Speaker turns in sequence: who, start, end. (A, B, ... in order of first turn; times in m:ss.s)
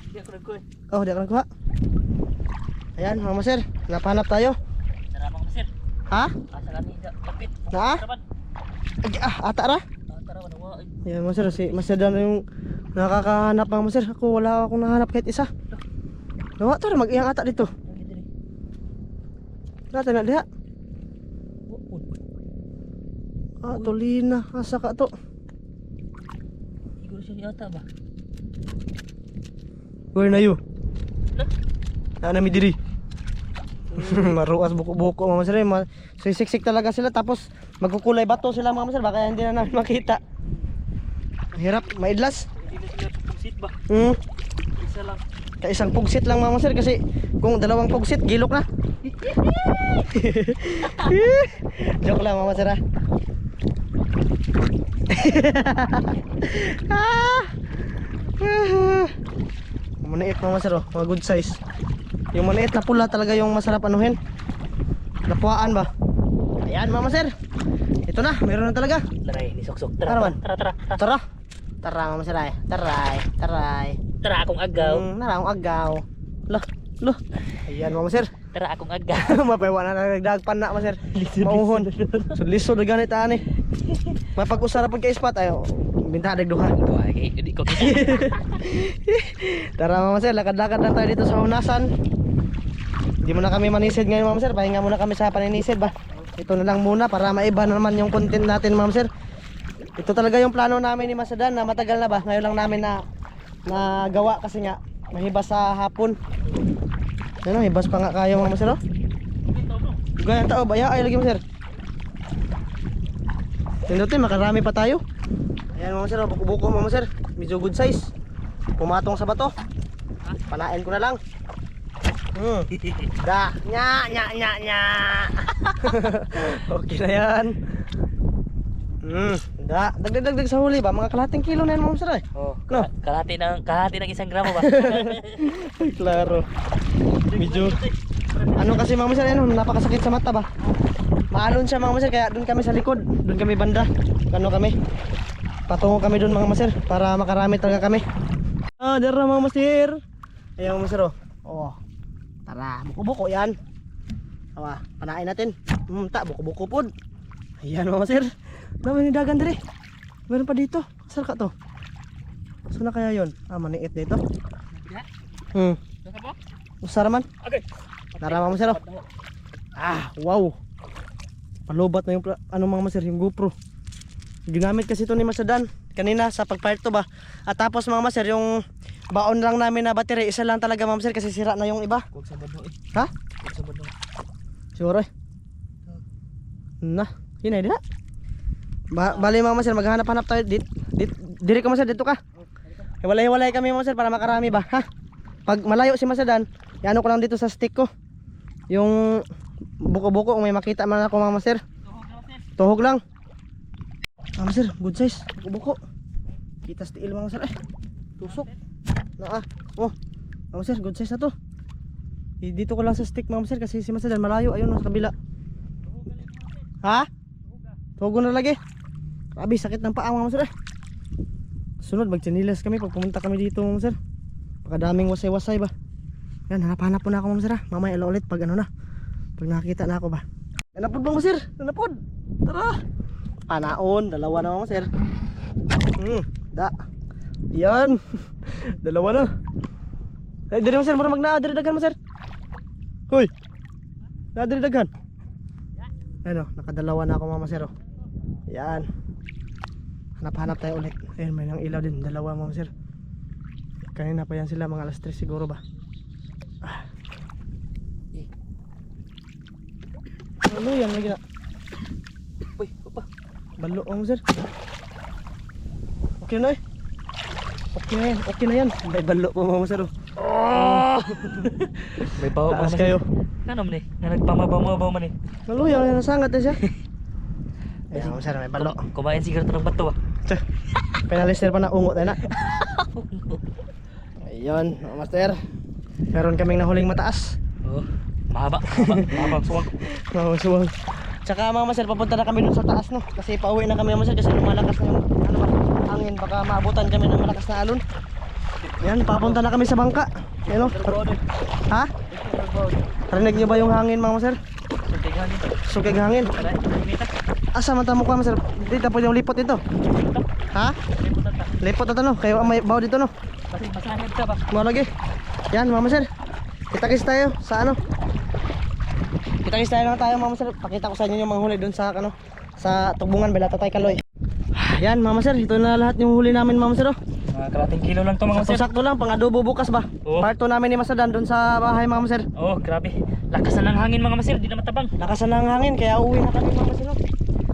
0:00.1-0:00.6 A
0:00.9-0:01.5 B
0:03.0-0:04.6 B
0:05.1-0:05.7 A
0:06.5-0:08.2 A
0:07.7-0:08.0 B
0:09.0-0:09.8 B
0:10.1-0:11.9 A
0:11.0-0:12.4 B
0:13.0-0:15.5 B
0:16.6-0:17.7 B
0:17.8-0:18.3 A
0:19.9-0:20.4 B
0:21.7-0:22.1 A
0:23.6-0:25.1 B
0:27.0-0:27.8 A
0:30.1-0:30.6 B
0:32.2-0:32.8 B
0:33.9-0:34.3 A
0:33.9-0:40.2 B
0:41.5-0:43.7 A
0:41.5-0:42.5 B
0:43.9-0:44.2 B
0:44.8-0:45.2 A
0:45.6-0:48.6 B
0:49.0-0:50.1 A
0:50.0-0:52.8 B
0:50.8-0:51.2 A
0:55.1-0:57.6 B
0:58.4-0:59.1 B
1:00.0-1:01.6 B
1:02.3-1:04.2 B
1:05.3-1:05.9 B
1:06.6-1:07.3 B
1:08.1-1:09.0 B
1:09.2-1:11.0 A
1:10.1-1:10.4 B
1:11.0-1:11.2 B
1:11.8-1:14.0 B
1:14.2-1:15.0 A
1:14.7-1:18.3 B
1:18.5-1:19.4 A
1:19.2-1:23.4 B
1:21.0-1:22.4 A
1:23.8-1:24.2 A
1:24.4-1:26.8 B
1:26.7-1:28.4 A
1:27.7-1:31.9 B
1:33.2-1:39.1 B
1:40.0-1:43.0 B
1:43.7-1:46.2 B
1:47.4-1:48.8 B
1:49.4-1:50.0 A
1:50.2-1:51.4 B
1:53.9-1:55.0 B
1:55.7-1:58.1 B
1:58.8-1:59.5 B
2:00.5-2:01.2 B
2:02.3-2:07.6 B
2:02.8-2:03.1 A
2:09.0-2:12.9 B
2:12.3-2:16.4 A
2:14.5-2:16.4 B
2:17.1-2:19.2 A
2:17.3-2:17.8 B
2:18.6-2:20.5 B
2:21.3-2:24.7 B
2:25.7-2:28.0 B
2:28.8-2:30.0 B
2:30.6-2:31.8 B
2:32.5-2:33.6 B
2:34.6-2:36.9 B
2:37.6-2:38.3 B
2:38.8-2:39.6 B
2:40.3-2:41.5 B
2:42.7-2:44.2 B
2:44.7-2:45.1 A
2:45.5-2:45.8 B
2:46.0-2:46.4 A
2:46.8-2:47.3 B
2:47.4-2:49.1 A
2:48.2-2:48.8 B
2:49.8-2:50.6 B
2:51.7-2:53.5 B
2:54.5-2:58.6 B
2:59.1-3:02.0 B
3:02.1-3:02.8 A
3:03.4-3:03.9 A
3:04.8-3:05.1 B
3:06.8-3:07.8 B
3:08.9-3:12.2 B
3:09.0-3:09.3 A
3:12.4-3:12.9 A
3:13.0-3:14.8 B
3:15.5-3:17.9 B
3:18.7-3:19.2 B
3:19.8-3:21.6 B
3:21.8-3:22.4 A
3:22.6-3:23.0 B
3:24.4-3:25.8 B
3:26.6-3:27.5 B
3:28.2-3:28.6 A
3:29.2-3:29.9 B
3:30.5-3:31.3 B
3:32.4-3:35.1 B
3:35.9-3:36.6 A
3:36.8-3:37.1 B
3:38.0-3:38.6 B
3:39.4-3:40.5 B
3:41.8-3:44.0 B
3:44.6-3:45.7 B
3:46.5-3:48.7 B
3:49.4-3:50.2 B
3:50.7-3:52.8 B
3:53.5-3:54.9 B
3:56.0-3:56.7 B
3:57.5-3:59.3 B
4:00.5-4:02.0 B
4:04.3-4:04.9 B
4:06.2-4:07.7 B
4:08.5-4:08.9 B
4:10.2-4:12.7 B
4:13.9-4:15.6 B
4:20.4-4:21.2 B
4:22.4-4:23.0 A
4:23.6-4:24.2 B
4:26.2-4:26.6 B
4:27.7-4:29.9 B
4:30.2-4:35.1 A
4:30.5-4:33.0 B
4:35.5-4:36.6 B
4:37.9-4:39.9 A
4:37.9-4:38.8 B
4:41.1-4:42.2 B
4:42.2-4:43.4 A
4:44.2-4:45.4 B
4:46.1-4:47.4 B
4:47.6-4:49.7 A
4:48.7-4:57.8 B
4:58.6-4:59.5 A
4:58.8-5:00.9 B
5:00.4-5:01.2 A
5:02.1-5:02.8 A
5:03.1-5:04.4 B
5:04.9-5:05.6 A
5:05.6-5:06.3 B
5:06.2-5:07.1 A
5:07.6-5:09.6 B
5:10.0-5:10.2 A
5:10.9-5:11.7 A
5:11.6-5:13.1 B
5:12.3-5:12.6 A
5:13.5-5:14.4 A
5:14.5-5:14.9 B
5:15.5-5:16.1 B
5:16.7-5:17.8 B
5:19.4-5:24.0 B
5:24.5-5:27.0 B
5:27.3-5:28.6 A
5:28.3-5:32.2 B
5:30.0-5:30.3 A
5:32.4-5:34.9 A
5:35.0-5:37.0 B